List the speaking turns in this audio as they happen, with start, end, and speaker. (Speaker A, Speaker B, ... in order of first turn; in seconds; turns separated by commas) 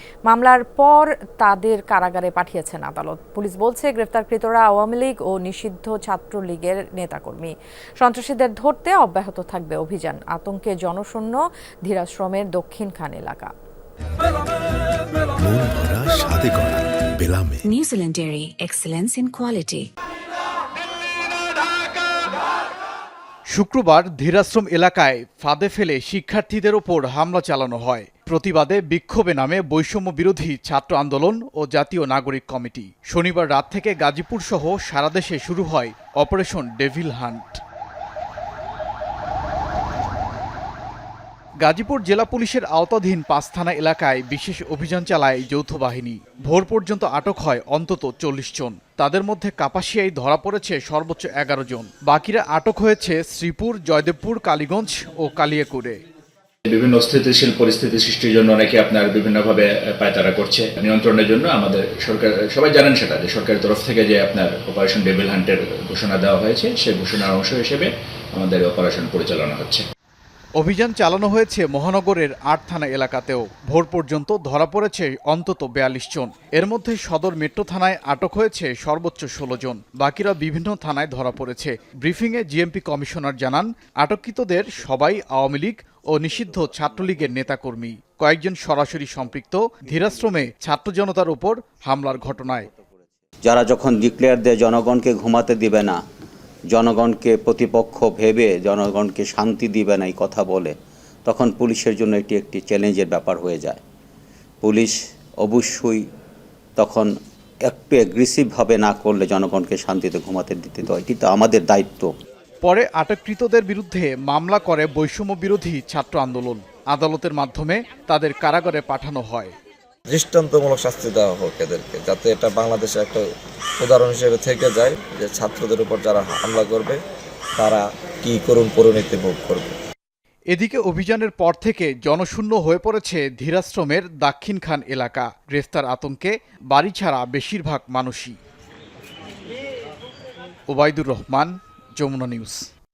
Speaker A: 0.3-13.5, Speaker B: 15.4-17.6, Speaker C: 17.7-19.9, Speaker D: 23.5-37.6, Speaker D: 41.6-56.0, Speaker E: 56.6-69.9, Speaker D: 70.6-92.7, Speaker F: 93.4-96.0, Speaker F: 96.7-100.7, Speaker F: 101.2-103.8, Speaker F: 104.6-106.0, Speaker F: 106.8-107.1, Speaker F: 107.7-112.1, Speaker D: 112.6-119.5, Speaker G: 120.1-123.2, Speaker G: 123.8-127.0, Speaker G: 127.6-129.7, Speaker D: 130.5-138.3, Speaker D: 140.7-142.6